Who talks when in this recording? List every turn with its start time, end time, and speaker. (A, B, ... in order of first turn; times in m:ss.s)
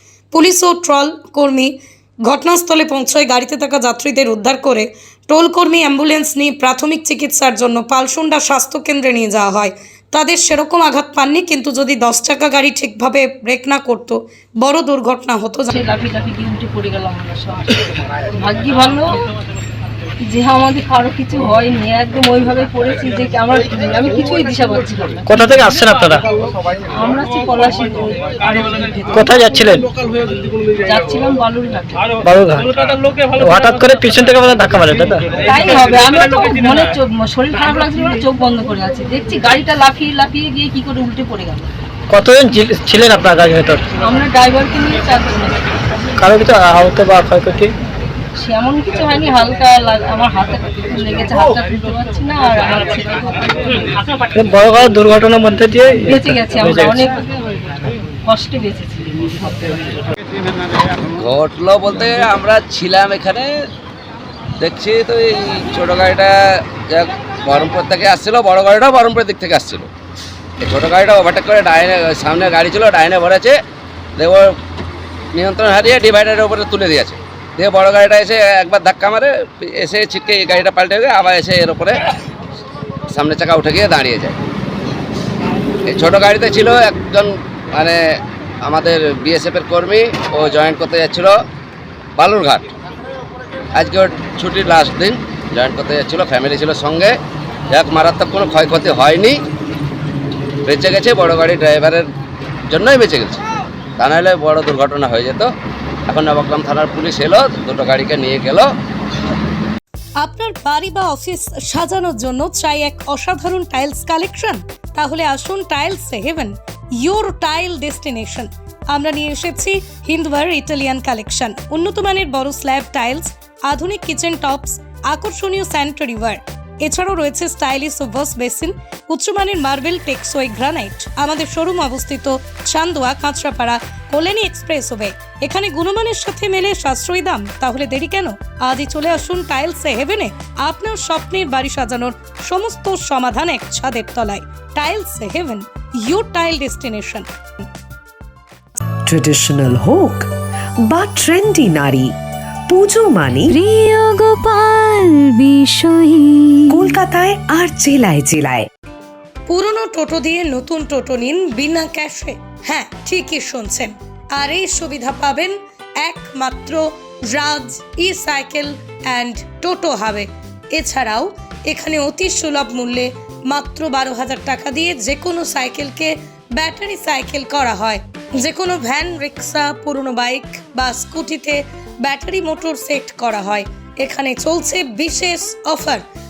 0:00.3-0:15.7 A
0:15.7-0:19.2 B
0:20.2-0:25.2 B
0:25.3-0:26.2 C
0:26.9-0:29.7 B
0:29.1-0:29.8 C
0:30.8-0:32.1 B
0:32.2-0:32.7 C
0:33.4-0:35.3 C
0:35.4-0:41.7 B
0:42.1-0:43.8 C
0:44.0-0:45.7 B
0:46.2-0:47.7 C
0:48.4-0:54.1 B
0:54.3-0:56.9 C
0:56.1-0:57.3 B
0:58.2-1:00.0 B
1:01.1-1:03.5 D
1:04.6-1:09.9 D
1:10.6-1:13.6 D
1:14.2-1:14.5 D
1:15.3-1:22.0 D
1:23.1-1:24.3 D
1:25.8-1:31.4 D
1:32.2-1:32.7 D
1:33.7-1:37.2 D
1:37.7-1:39.4 D
1:40.6-1:42.1 D
1:42.7-1:43.4 D
1:44.0-1:45.5 D
1:46.1-1:48.7 D
1:50.2-2:27.3 A
2:29.0-2:30.3 E
2:30.8-2:32.1 E
2:32.7-2:33.6 E
2:33.6-2:36.6 F
2:36.7-2:38.7 E
2:39.5-3:06.0 A